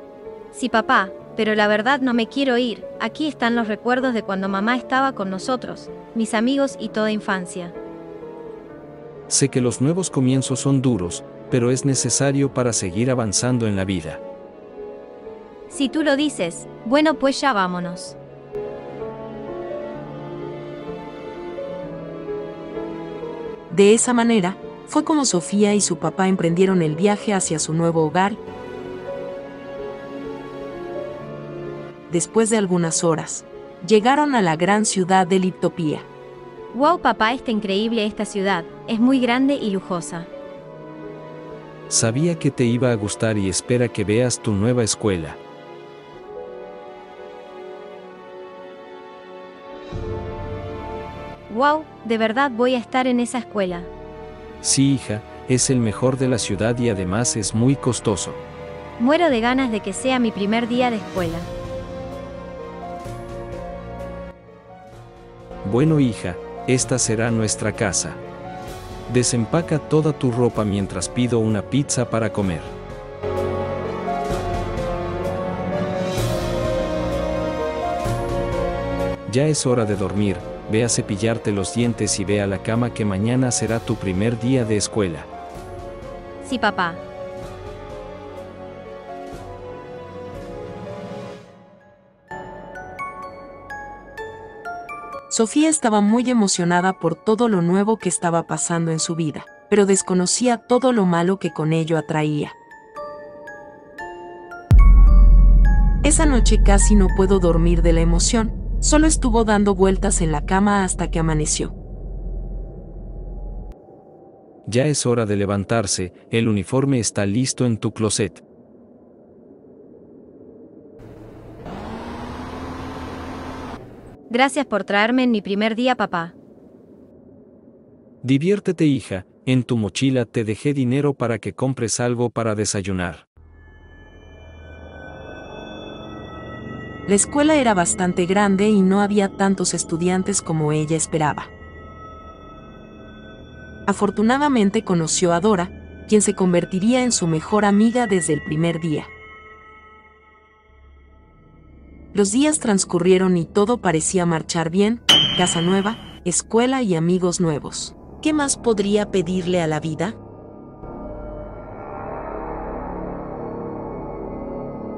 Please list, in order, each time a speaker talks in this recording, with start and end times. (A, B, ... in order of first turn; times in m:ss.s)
0:00.5-0:07.8 A
0:09.3-0:14.2 B
0:15.7-0:18.2 A
0:23.7-0:28.4 C
0:32.1-0:36.1 C
0:36.7-0:40.3 A
0:41.9-0:45.4 B
0:51.5-0:53.9 A
0:54.6-0:58.4 B
0:59.0-1:01.5 A
1:05.6-1:08.2 B
1:09.1-1:12.7 B
1:19.3-1:25.3 B
1:26.4-1:27.0 A
1:35.3-1:42.6 C
1:46.0-1:51.7 C
1:54.7-1:58.4 B
2:04.3-2:06.4 A
2:08.2-2:13.3 B
2:17.1-2:21.5 C
2:23.9-2:29.1 C
2:32.1-2:40.2 C